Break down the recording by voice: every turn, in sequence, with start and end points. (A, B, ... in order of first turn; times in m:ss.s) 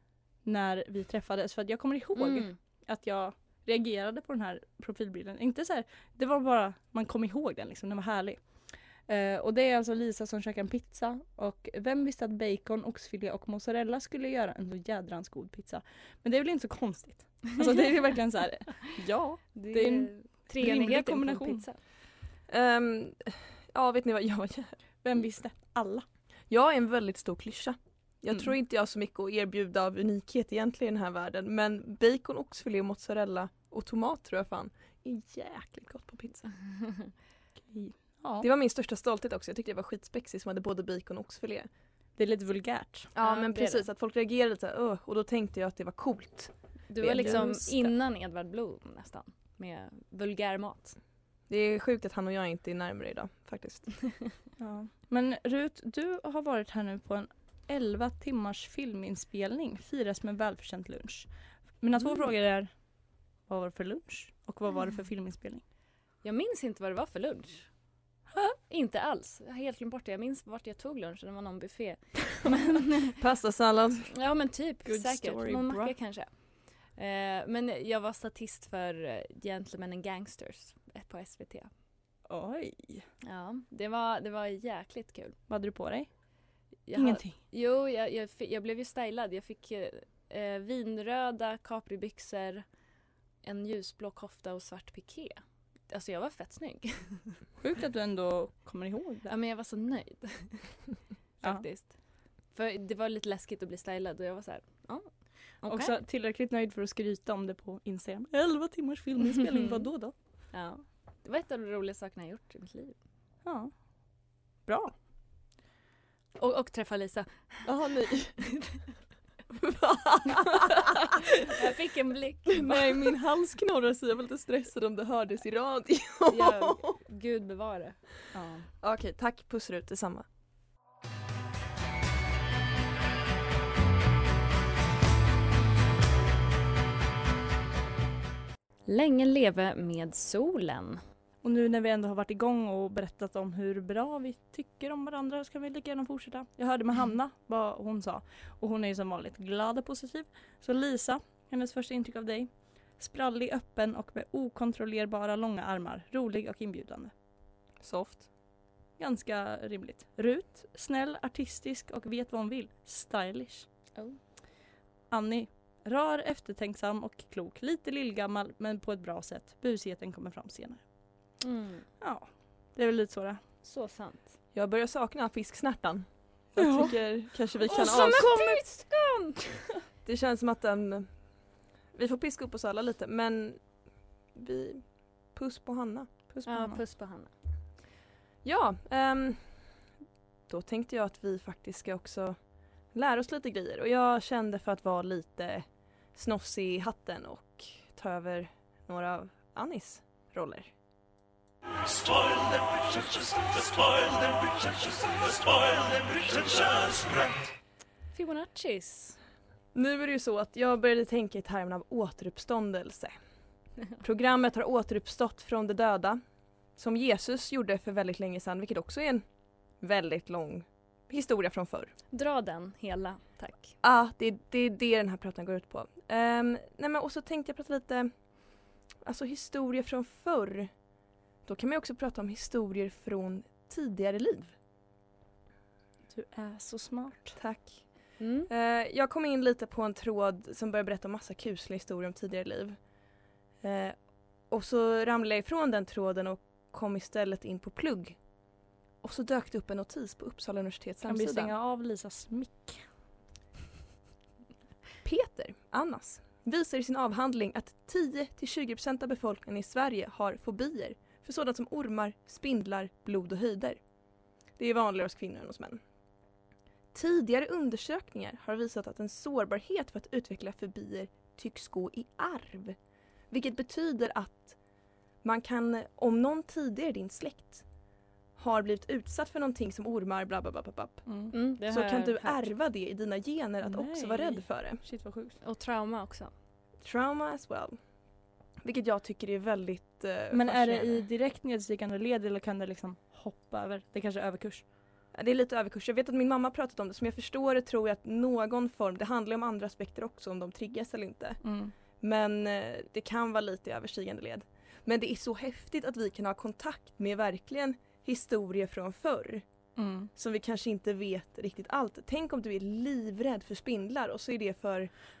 0:00.4-0:08.4 A
0:02.2-0:02.6 B
0:09.1-0:21.6 A
0:19.6-0:21.8 B
0:22.5-0:24.7 C
0:25.0-0:26.0 A
0:26.5-0:36.5 C
0:36.8-0:37.1 B
0:37.7-0:38.5 A
0:38.4-0:41.7 C
0:42.2-0:43.1 A
0:43.1-0:47.4 C
0:43.2-0:43.9 B
0:46.9-0:51.0 B
0:47.1-0:47.9 A
0:51.5-0:53.9 C
0:54.6-1:01.3 A
1:01.8-1:02.7 A
1:03.5-1:05.6 A
1:06.2-1:07.7 B
1:08.7-1:13.1 B
1:13.2-1:14.1 C
1:14.1-1:16.3 B
1:14.8-1:15.9 A
1:16.9-1:21.7 B
1:22.3-1:23.0 A
1:23.2-1:25.4 B
1:25.5-1:26.1 A
1:26.9-1:32.6 B
1:26.9-1:27.3 A
1:33.4-1:37.4 B
1:37.6-1:39.3 A
1:39.3-1:40.7 B
1:41.4-1:41.9 B
1:42.5-1:45.1 B
1:45.6-1:45.9 B
1:45.6-1:50.1 A
1:49.5-1:49.8 B
1:50.5-1:52.9 B
1:53.4-1:53.7 A
1:54.6-1:54.9 A
1:56.4-1:57.6 B
1:57.6-1:58.4 C
1:59.5-2:01.2 C
2:01.4-2:02.9 B
2:02.5-2:06.8 C
2:06.3-2:08.0 B
2:08.3-2:08.7 A
2:08.8-2:10.2 C
2:18.8-2:21.0 B
2:21.4-2:37.1 A
2:37.8-2:38.3 C
2:39.0-2:43.7 A
2:45.1-2:50.8 A
2:51.4-2:51.8 B
2:52.0-2:53.4 A
2:53.6-2:54.3 B
2:54.5-2:58.3 C
2:56.6-2:56.9 A
2:57.6-2:59.6 B
2:57.6-2:58.6 A
3:00.0-3:01.1 C
3:01.9-3:03.7 C
3:04.3-3:06.1 C
3:06.3-3:06.8 A
3:06.4-3:07.3 B
3:08.4-3:09.6 C
3:10.5-3:12.4 C
3:12.9-3:20.7 C
3:22.9-3:24.4 C
3:25.4-3:27.1 C
3:28.1-3:29.2 B
3:29.7-3:33.1 C
3:34.0-3:36.2 C
3:36.8-3:39.2 C
3:39.8-3:41.9 C
3:42.1-3:43.7 B
3:43.8-3:48.1 C
3:49.0-3:50.7 C
3:51.4-3:54.5 C
3:56.1-3:57.4 A
3:57.4-4:02.8 C
3:58.2-3:58.5 B
4:03.6-4:08.2 C
4:09.0-4:11.5 C
4:11.0-4:12.8 A
4:15.0-4:23.8 C
4:24.6-4:25.8 C
4:26.9-4:32.8 C
4:33.3-4:34.6 C
4:35.2-4:37.6 C
4:38.4-4:44.8 C
4:41.0-4:41.3 A
4:41.3-4:42.5 B
4:43.6-4:45.4 A
4:45.4-4:46.3 B
4:46.8-4:47.8 C
4:48.6-4:51.0 C
4:50.3-4:54.6 A
4:55.1-5:01.4 C
5:01.4-5:01.7 A
5:02.0-5:09.4 C
5:09.8-5:10.1 A
5:10.1-5:14.9 C